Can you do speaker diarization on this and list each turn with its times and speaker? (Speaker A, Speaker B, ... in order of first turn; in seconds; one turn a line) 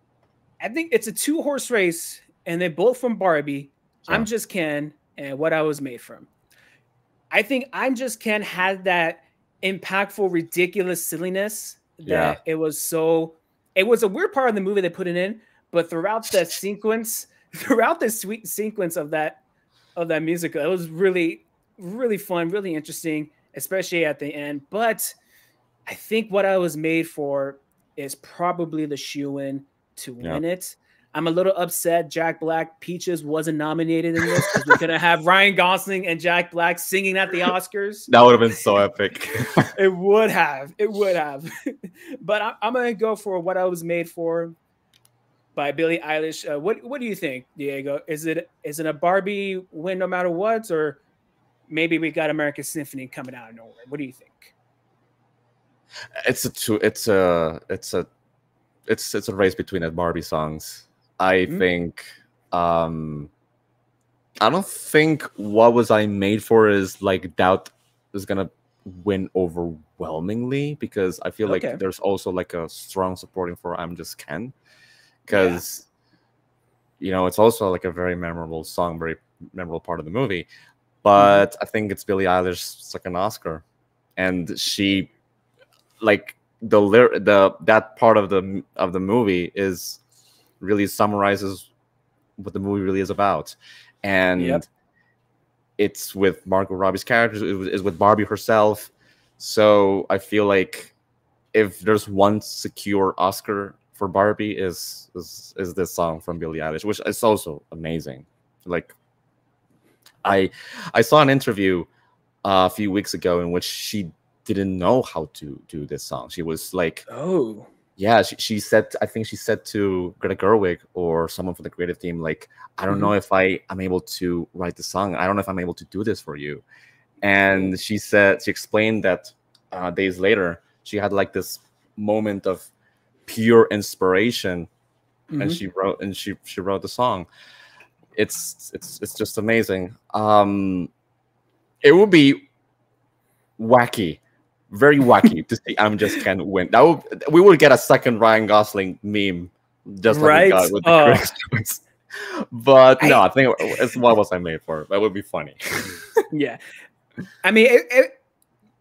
Speaker A: 0.6-6.3
Speaker A: 7.3-19.4
Speaker B: 12.1-12.4
Speaker A: 20.0-25.1
Speaker A: 25.9-38.1
Speaker B: 34.4-34.7
Speaker B: 38.1-39.7
Speaker A: 39.8-44.5
Speaker A: 45.6-51.0
Speaker A: 51.7-54.5
Speaker B: 56.2-58.1
Speaker B: 58.9-63.3
Speaker B: 64.4-74.5
Speaker A: 71.5-71.8
Speaker B: 75.2-75.9
Speaker A: 75.3-75.6
Speaker B: 77.0-80.5
Speaker B: 81.0-83.6
Speaker A: 81.2-81.5
Speaker B: 84.2-85.1
Speaker B: 86.0-90.0
Speaker B: 90.6-91.7
Speaker B: 92.4-94.7
Speaker A: 94.4-94.6
Speaker B: 95.8-100.9
Speaker B: 101.5-108.9
Speaker B: 110.2-111.9
Speaker B: 112.4-117.0
Speaker A: 117.1-117.7
Speaker B: 118.0-126.6
Speaker B: 127.2-132.7
Speaker B: 133.3-134.7
Speaker A: 135.3-135.6
Speaker B: 135.4-137.3
Speaker B: 138.2-140.9
Speaker B: 141.8-142.5
Speaker B: 143.6-144.2
Speaker B: 144.7-156.0
Speaker A: 150.1-151.3
Speaker A: 153.0-153.8
Speaker A: 156.3-156.6
Speaker A: 157.4-158.1